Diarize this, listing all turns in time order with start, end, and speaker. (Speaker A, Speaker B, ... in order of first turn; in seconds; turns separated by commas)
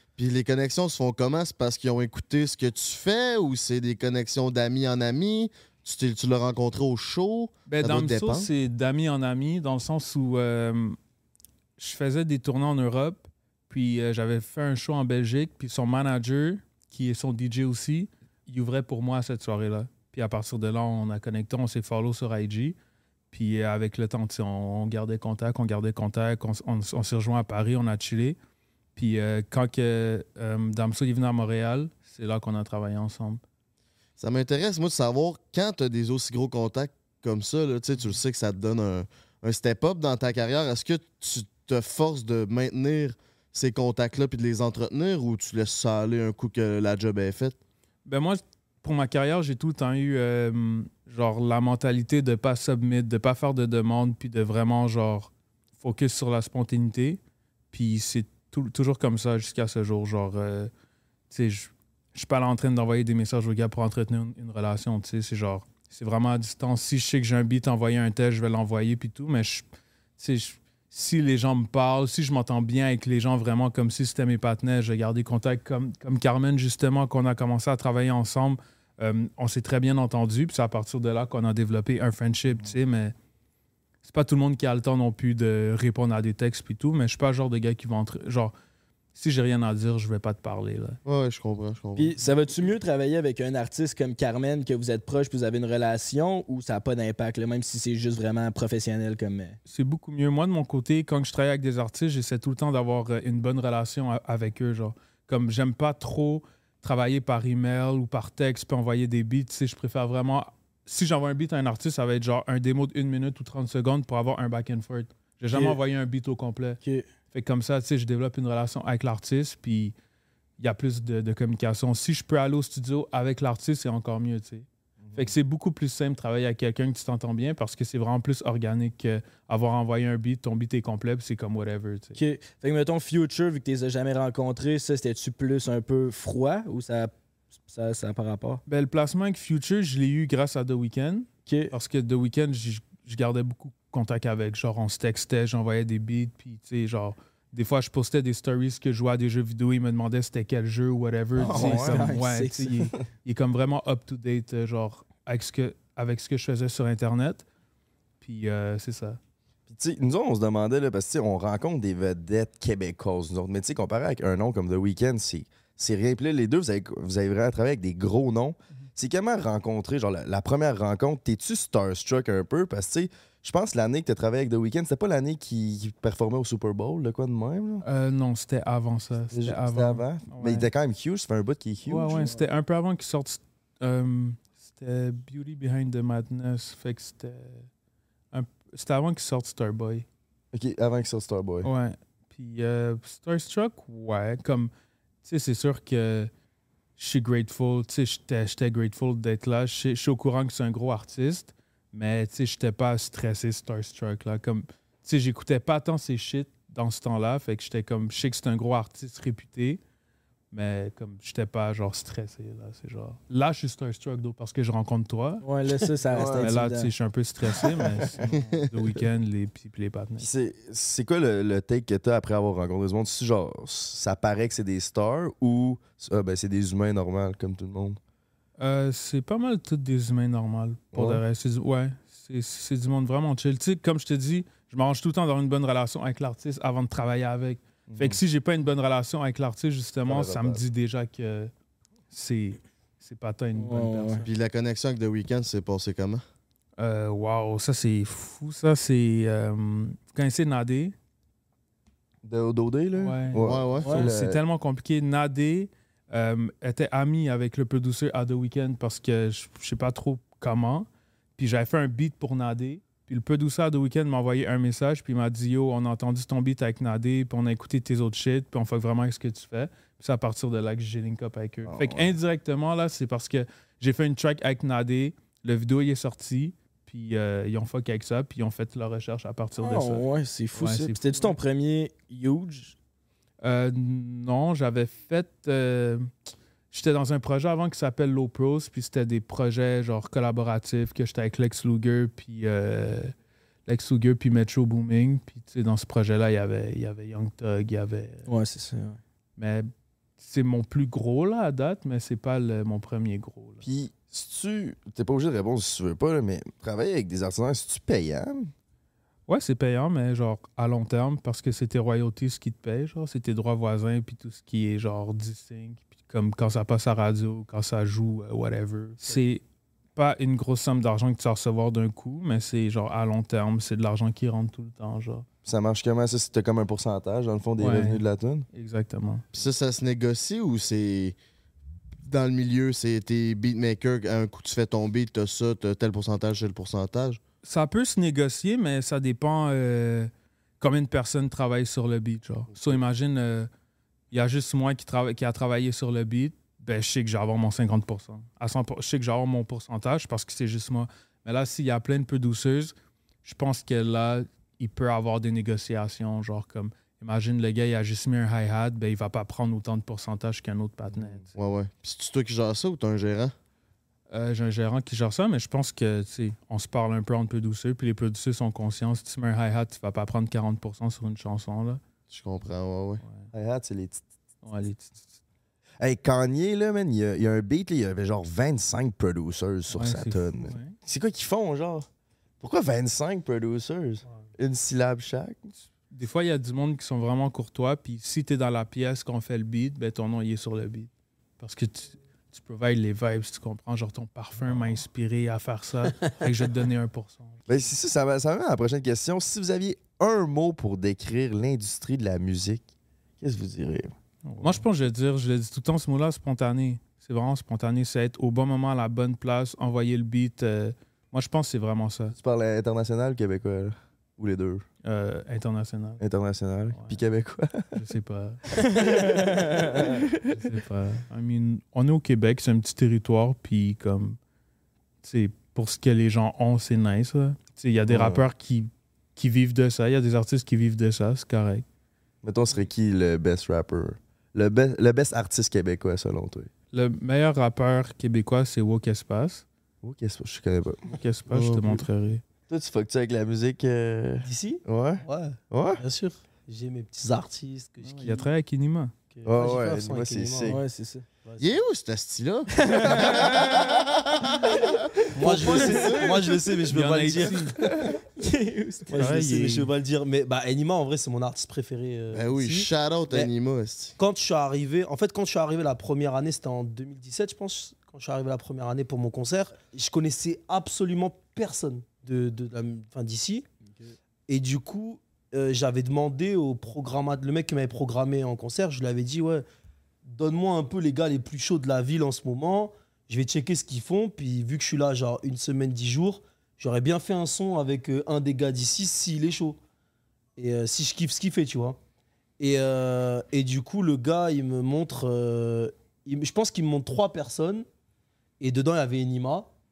Speaker A: 0.2-8.5, Speaker B: 7.7-11.0, Speaker B: 11.8-22.8, Speaker B: 23.3-28.4, Speaker B: 28.9-33.4, Speaker A: 34.2-47.5, Speaker B: 48.0-57.2, Speaker B: 57.7-60.7, Speaker B: 61.3-69.6, Speaker B: 70.2-83.1, Speaker B: 84.0-88.5, Speaker B: 89.1-91.0, Speaker A: 91.0-92.1, Speaker C: 92.0-99.6, Speaker B: 99.7-116.8, Speaker C: 115.5-115.8, Speaker C: 116.8-117.1, Speaker B: 117.3-119.9, Speaker B: 120.6-132.2, Speaker D: 125.0-125.3, Speaker C: 132.2-137.1, Speaker C: 137.7-138.6, Speaker B: 138.7-157.4, Speaker C: 141.5-141.7, Speaker D: 151.4-152.1, Speaker C: 151.4-152.9, Speaker B: 158.2-159.2, Speaker D: 159.7-177.8, Speaker B: 177.8-180.7, Speaker D: 179.3-182.3, Speaker B: 181.8-187.7, Speaker B: 188.3-190.1, Speaker D: 190.5-191.7, Speaker B: 191.6-194.7, Speaker B: 195.2-196.3, Speaker B: 197.0-209.8, Speaker B: 210.5-215.4, Speaker C: 215.4-216.9, Speaker D: 216.1-216.6, Speaker B: 216.4-220.3, Speaker D: 217.6-218.0, Speaker A: 218.4-218.6, Speaker D: 220.2-228.0, Speaker B: 228.6-241.5, Speaker D: 230.9-231.2, Speaker D: 237.9-238.2, Speaker D: 240.1-240.6, Speaker B: 242.1-244.2, Speaker C: 243.6-244.2, Speaker A: 244.2-246.2, Speaker B: 246.8-250.9, Speaker D: 252.2-254.4, Speaker B: 252.9-281.4, Speaker A: 253.4-254.0, Speaker C: 253.8-254.1, Speaker D: 271.6-272.1, Speaker C: 279.6-282.7, Speaker B: 283.4-286.1, Speaker B: 286.7-293.1, Speaker B: 293.6-298.3, Speaker C: 298.3-299.0, Speaker B: 299.4-303.6, Speaker D: 303.6-308.5, Speaker B: 309.3-319.4, Speaker B: 319.9-325.3, Speaker D: 325.4-328.4, Speaker B: 327.6-328.0, Speaker B: 328.5-329.2, Speaker A: 329.3-331.1, Speaker A: 332.0-337.2, Speaker B: 337.4-343.5, Speaker B: 344.1-352.7, Speaker B: 353.2-361.2, Speaker D: 360.9-361.2, Speaker A: 361.4-363.3, Speaker B: 364.1-371.8, Speaker A: 372.1-373.0, Speaker B: 373.0-373.3, Speaker D: 373.3-374.0, Speaker B: 374.4-375.1, Speaker D: 375.8-381.9, Speaker B: 379.7-380.8, Speaker D: 382.4-385.5, Speaker B: 385.9-397.7, Speaker D: 397.5-402.6, Speaker D: 403.2-404.6, Speaker B: 404.3-412.1, Speaker D: 412.1-414.6, Speaker B: 414.8-416.0, Speaker D: 416.0-417.7, Speaker B: 416.7-417.0, Speaker B: 417.7-418.8, Speaker D: 418.6-420.2, Speaker C: 418.8-419.8, Speaker B: 420.3-424.2, Speaker B: 425.0-431.6, Speaker D: 427.9-428.2, Speaker D: 432.2-436.5, Speaker B: 436.7-439.4, Speaker D: 439.8-441.7, Speaker B: 440.9-442.2, Speaker D: 442.5-445.8, Speaker E: 444.2-448.3, Speaker B: 447.8-448.9, Speaker E: 449.1-450.6, Speaker D: 449.2-450.6, Speaker C: 450.4-451.0, Speaker E: 451.2-451.6, Speaker A: 451.4-456.1, Speaker C: 452.7-453.6, Speaker E: 455.1-457.8, Speaker B: 456.7-457.6, Speaker C: 458.2-459.0, Speaker E: 458.9-463.3, Speaker B: 458.9-459.7, Speaker A: 462.1-464.0, Speaker E: 464.0-473.4, Speaker C: 473.7-473.9, Speaker E: 474.3-479.4, Speaker E: 480.1-489.6, Speaker E: 490.4-491.8, Speaker E: 492.4-497.6, Speaker E: 498.4-499.5